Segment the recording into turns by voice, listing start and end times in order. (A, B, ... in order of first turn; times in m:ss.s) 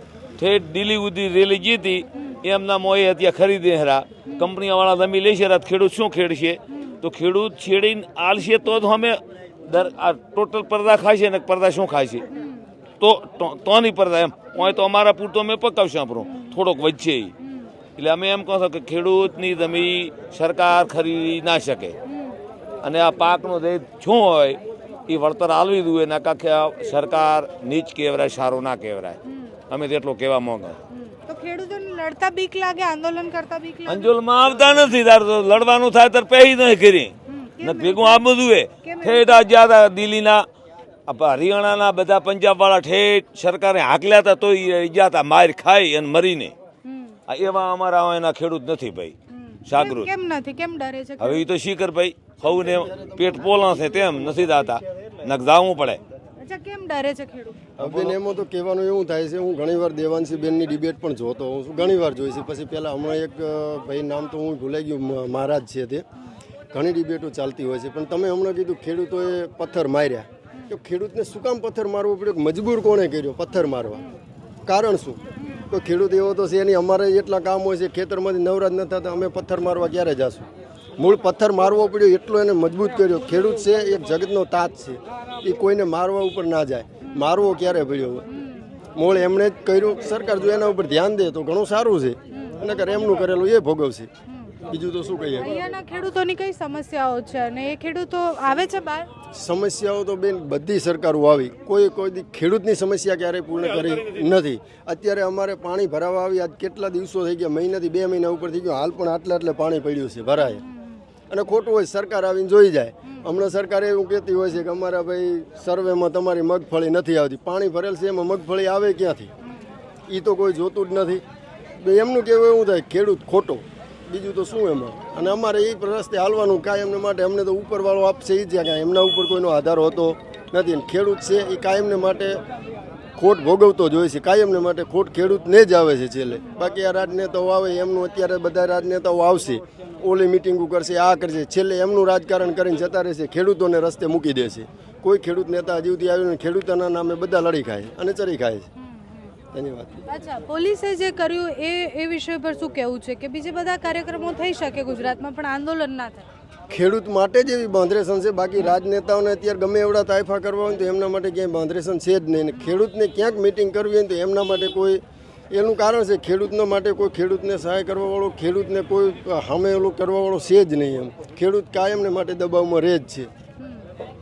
0:00.4-0:09.2 A
0:09.7-0:12.2 A
0:13.0-0:17.3 A
0:18.0-0:21.9 A
0:22.8-0:29.2 A
0:29.7-0:30.7 A
0:30.9-0:34.1 B
0:33.9-0:40.4 A
0:37.3-0:38.2 B
0:38.8-0:39.4 B
0:41.1-0:46.5 A
0:46.8-0:47.2 B
0:47.3-0:49.1 A
0:49.3-0:51.4 B
0:49.7-0:50.1 A
0:51.2-0:56.0 A
0:56.4-0:57.6 B
0:57.8-1:06.0 C
0:57.8-0:58.1 A
1:06.7-1:14.0 C
1:14.6-1:15.2 C
1:15.4-1:15.6 B
1:15.7-1:28.2 C
1:28.3-1:28.7 B
1:28.9-1:34.1 C
1:32.3-1:32.6 B
1:34.3-1:34.5 B
1:34.7-1:35.5 C
1:35.4-1:39.1 B
1:39.3-1:50.6 C
1:50.4-1:51.0 B
1:51.3-1:59.3 C
1:59.4-1:59.7 B
2:00.1-2:01.2 C
2:01.8-2:12.4 C
2:13.2-2:28.7 C
2:28.9-2:29.3 B
2:29.5-2:30.0 C
2:30.1-2:36.3 B
2:36.7-2:53.3 C
2:53.6-2:53.9 B